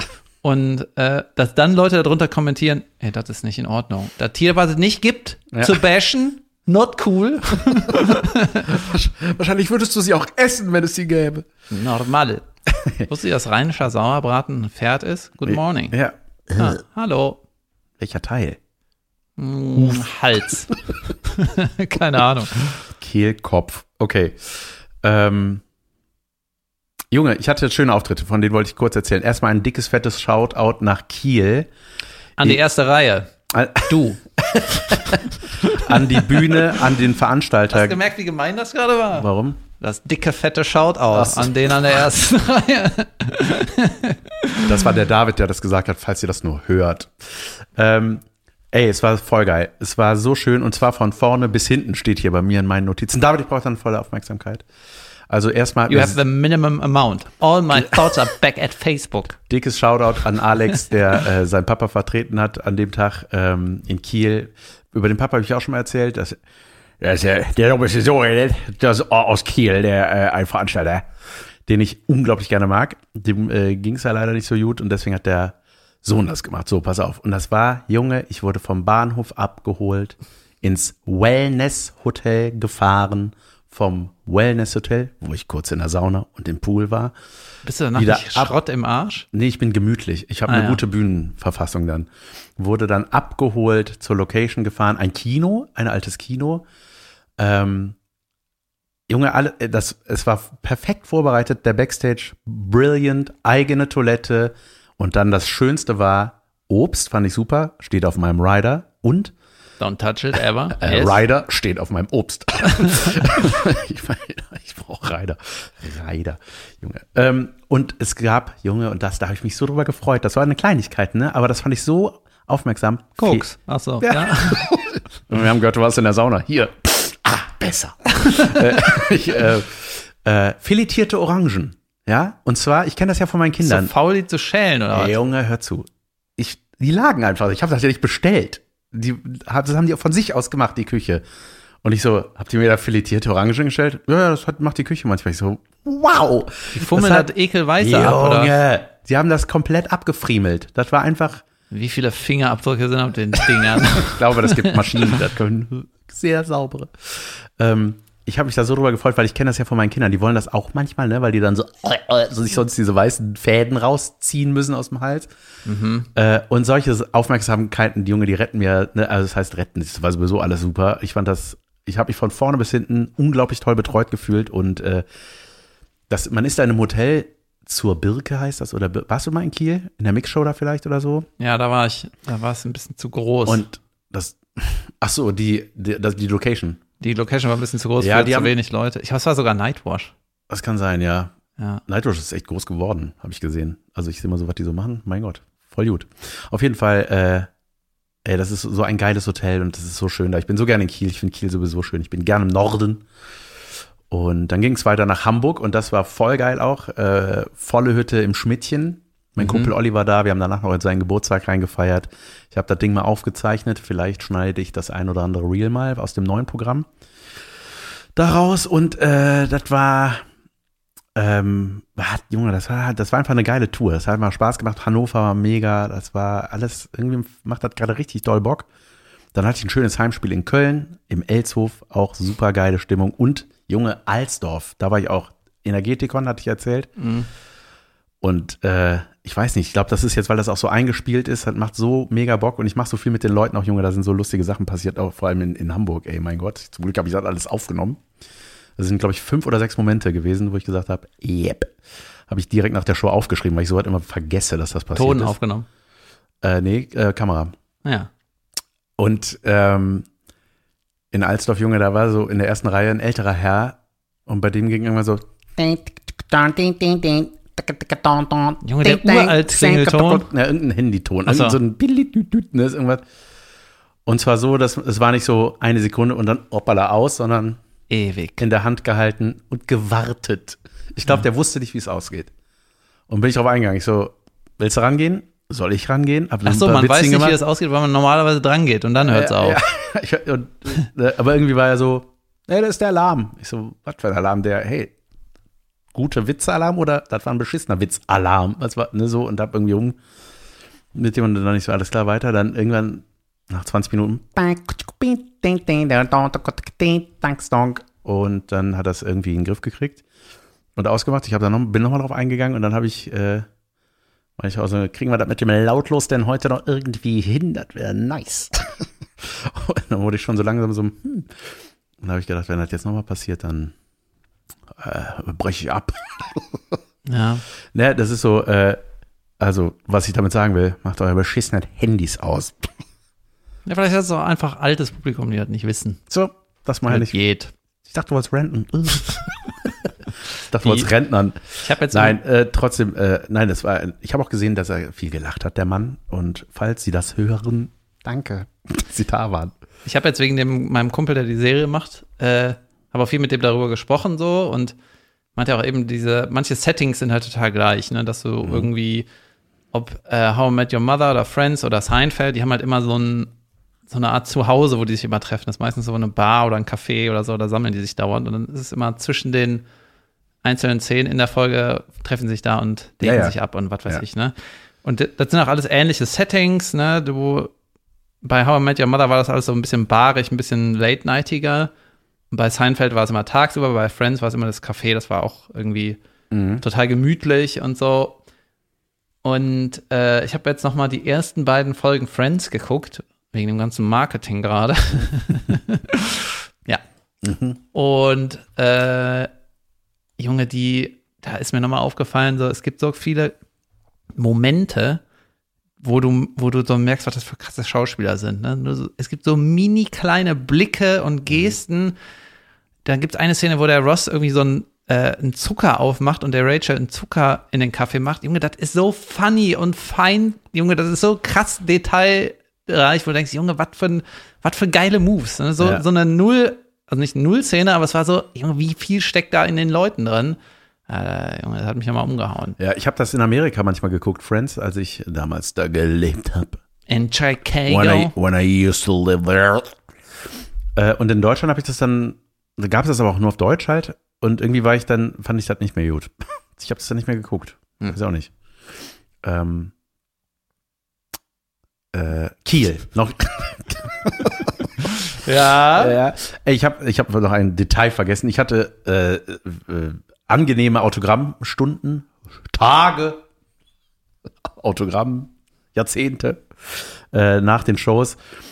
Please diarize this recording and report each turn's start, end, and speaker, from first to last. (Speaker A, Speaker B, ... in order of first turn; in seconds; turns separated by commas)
Speaker A: 0.4-8.9, Speaker B: 5.5-5.8, Speaker B: 8.7-11.5, Speaker A: 11.7-12.4, Speaker B: 12.7-13.1, Speaker A: 13.1-16.0, Speaker B: 15.5-16.8, Speaker A: 16.6-17.4, Speaker B: 18.0-18.6, Speaker A: 19.4-22.9, Speaker B: 19.8-20.1, Speaker B: 23.0-25.6, Speaker B: 27.1-31.7, Speaker A: 32.4-33.3, Speaker B: 33.5-38.0, Speaker A: 33.9-34.2, Speaker A: 34.9-36.8, Speaker A: 37.7-44.7, Speaker B: 39.1-39.6, Speaker B: 41.1-41.6, Speaker B: 44.6-54.6, Speaker B: 55.3-56.2, Speaker A: 55.9-59.4, Speaker B: 59.5-66.4, Speaker B: 67.0-71.1, Speaker B: 71.7-87.1, Speaker A: 87.6-89.3, Speaker B: 88.0-88.5, Speaker B: 89.3-96.7, Speaker A: 90.5-90.8, Speaker B: 97.4-98.0, Speaker B: 99.1-109.3, Speaker A: 109.8-111.2, Speaker B: 110.8-123.5, Speaker A: 112.9-113.1, Speaker A: 123.2-124.7, Speaker B: 124.0-133.9, Speaker A: 128.2-128.8, Speaker A: 133.6-135.2, Speaker B: 134.9-141.2, Speaker B: 141.8-151.4, Speaker A: 146.8-148.5, Speaker A: 151.7-155.1, Speaker B: 153.9-165.3, Speaker A: 165.7-166.1, Speaker B: 166.2-175.1, Speaker B: 176.1-181.3, Speaker A: 181.4-183.7, Speaker B: 183.5-186.8, Speaker A: 187.0-190.1, Speaker B: 188.0-188.5, Speaker B: 190.5-191.3, Speaker B: 191.9-197.5, Speaker B: 198.2-203.1, Speaker B: 204.1-216.9, Speaker A: 209.4-209.7, Speaker B: 218.2-220.2, Speaker B: 221.2-228.7, Speaker B: 229.3-236.9, Speaker A: 237.0-237.3, Speaker B: 238.2-248.0, Speaker B: 248.8-251.7, Speaker B: 252.3-255.3, Speaker A: 254.9-255.7, Speaker B: 256.4-257.5, Speaker B: 259.0-260.1, Speaker B: 261.1-273.0, Speaker A: 268.6-270.3, Speaker A: 271.3-271.6, Speaker B: 274.1-277.6, Speaker A: 277.9-278.4, Speaker B: 278.4-282.3, Speaker B: 283.1-287.4, Speaker A: 286.4-289.6, Speaker B: 289.1-294.9, Speaker B: 295.9-300.0, Speaker B: 300.9-310.0, Speaker B: 310.8-313.5, Speaker B: 314.4-323.8, Speaker B: 324.7-326.8, Speaker A: 327.1-327.4, Speaker B: 327.7-328.8, Speaker B: 329.4-332.7, Speaker A: 333.7-336.0, Speaker B: 336.1-337.2, Speaker A: 336.9-337.5, Speaker B: 337.9-339.9, Speaker B: 340.5-349.5, Speaker A: 340.6-340.9, Speaker A: 341.6-342.2, Speaker A: 349.9-354.8, Speaker A: 355.4-359.1, Speaker B: 358.4-358.7, Speaker A: 359.7-363.3, Speaker A: 363.9-369.6, Speaker A: 370.4-377.5, Speaker B: 373.0-373.4, Speaker A: 378.2-381.7, Speaker A: 382.3-386.0, Speaker B: 386.3-386.6, Speaker A: 386.6-388.2, Speaker A: 389.2-396.8, Speaker B: 397.2-397.6, Speaker A: 397.7-399.3, Speaker A: 400.2-403.3, Speaker A: 404.2-405.0, Speaker A: 405.8-411.9, Speaker A: 412.9-432.6, Speaker B: 432.6-436.6, Speaker A: 436.9-438.1, Speaker B: 437.7-439.8, Speaker B: 440.8-448.3, Speaker B: 449.2-449.7, Speaker B: 451.9-454.7, Speaker A: 455.1-456.0, Speaker B: 455.8-463.2, Speaker B: 464.5-468.2